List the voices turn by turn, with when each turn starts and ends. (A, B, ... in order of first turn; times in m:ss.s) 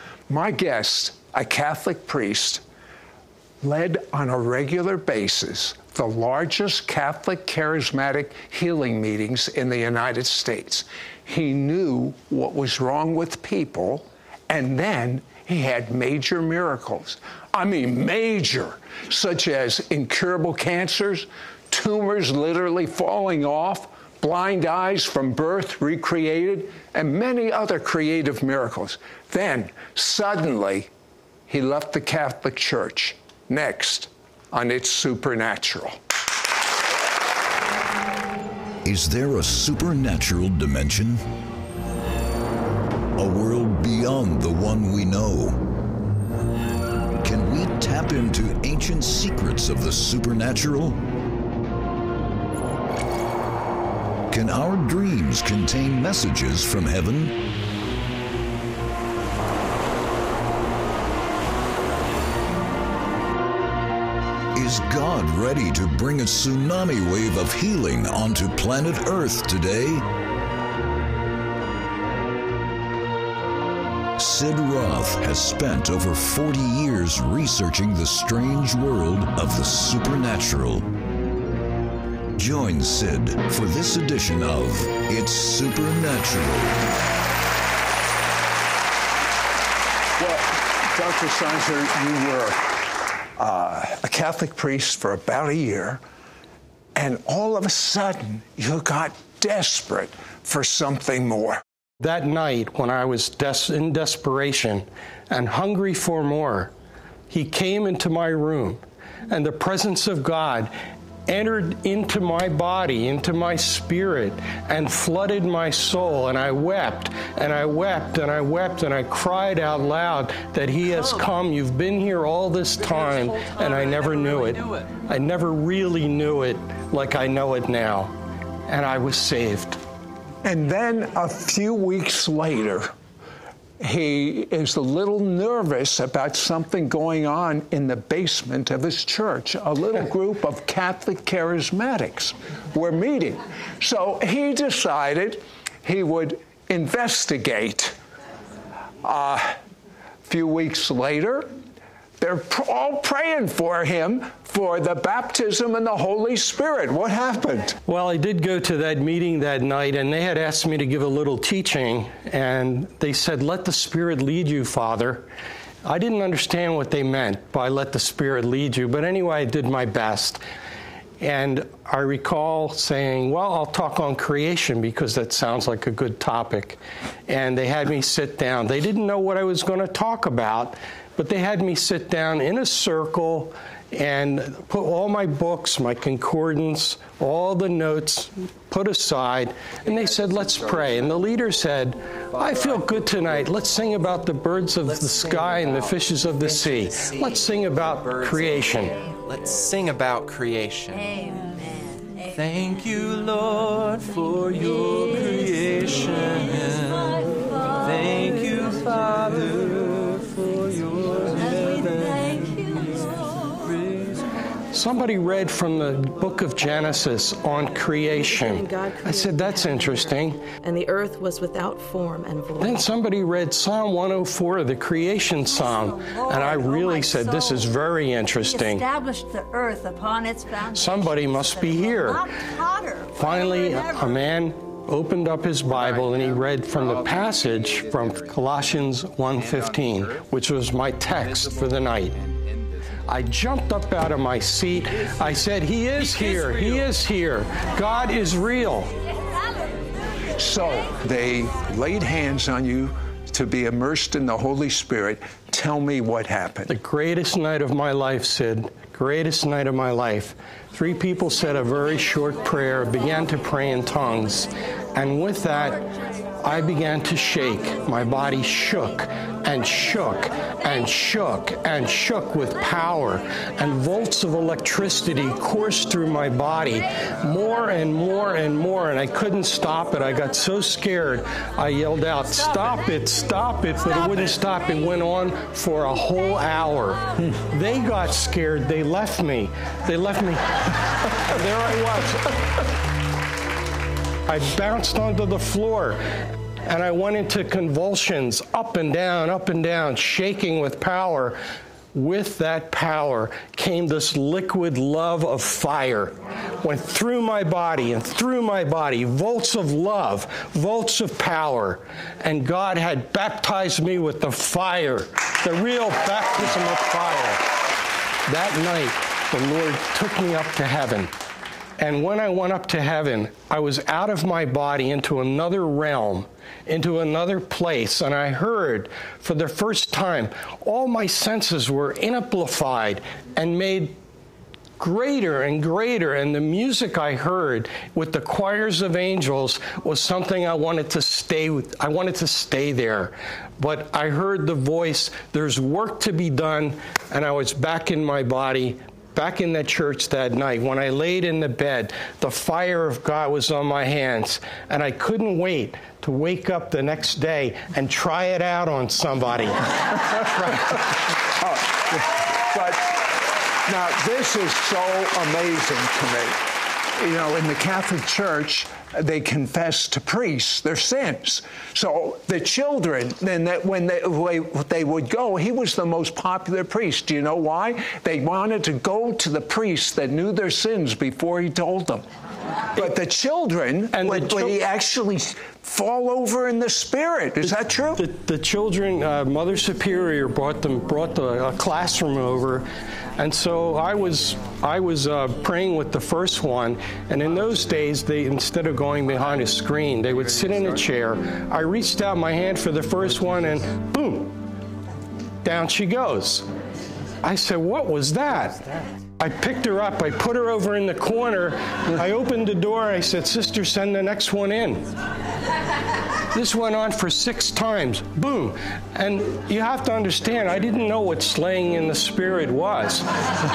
0:00.3-0:02.6 A
0:03.6-0:30.9 A
0:31.5-0:36.0 A
0:38.8-0:41.2 B
0:43.2-0:45.6 B
0:47.2-0:51.0 B
0:54.3-0:57.4 B
1:04.5-1:10.1 B
1:14.2-1:20.9 B
1:22.4-1:26.8 B
1:30.2-1:32.8 A
1:33.4-1:36.0 A
1:37.0-1:41.6 A
1:42.0-1:46.7 C
1:47.3-1:50.7 C
1:51.3-2:08.1 C
2:00.9-2:01.2 D
2:02.8-2:04.9 D
2:08.7-2:09.8 C
2:10.4-2:12.9 A
2:13.8-2:28.0 A
2:29.0-2:29.6 A
2:30.3-2:31.5 A
2:32.2-2:37.8 A
2:37.9-2:45.3 C
2:45.8-2:50.4 C
2:51.2-3:19.0 C
3:12.4-3:12.8 D
3:14.8-3:21.1 D
3:20.9-3:22.3 E
3:22.4-3:32.3 D
3:31.4-3:33.7 E
3:33.7-3:34.1 D
3:34.7-3:40.4 C
3:38.2-3:42.9 F
3:42.6-3:48.8 C
3:45.3-3:54.3 E
3:50.7-3:52.2 C
3:53.2-4:02.2 C
4:03.1-4:08.9 C
4:10.4-4:16.7 A
4:16.7-4:25.8 C
4:26.4-4:50.6 C
4:51.2-4:52.3 C
4:54.3-4:56.0 C
4:56.6-5:01.4 C
5:01.9-5:17.5 C
5:18.3-5:21.1 C
5:21.8-5:34.0 C
5:34.8-5:59.7 C
6:01.4-6:03.0 A
6:03.7-6:06.4 A
6:07.0-6:22.0 A
6:22.8-6:28.0 A
6:23.9-6:24.6 C
6:27.4-6:32.7 C
6:33.2-6:44.4 C
6:45.4-6:46.5 C
6:47.2-6:54.9 C
6:56.3-7:03.1 C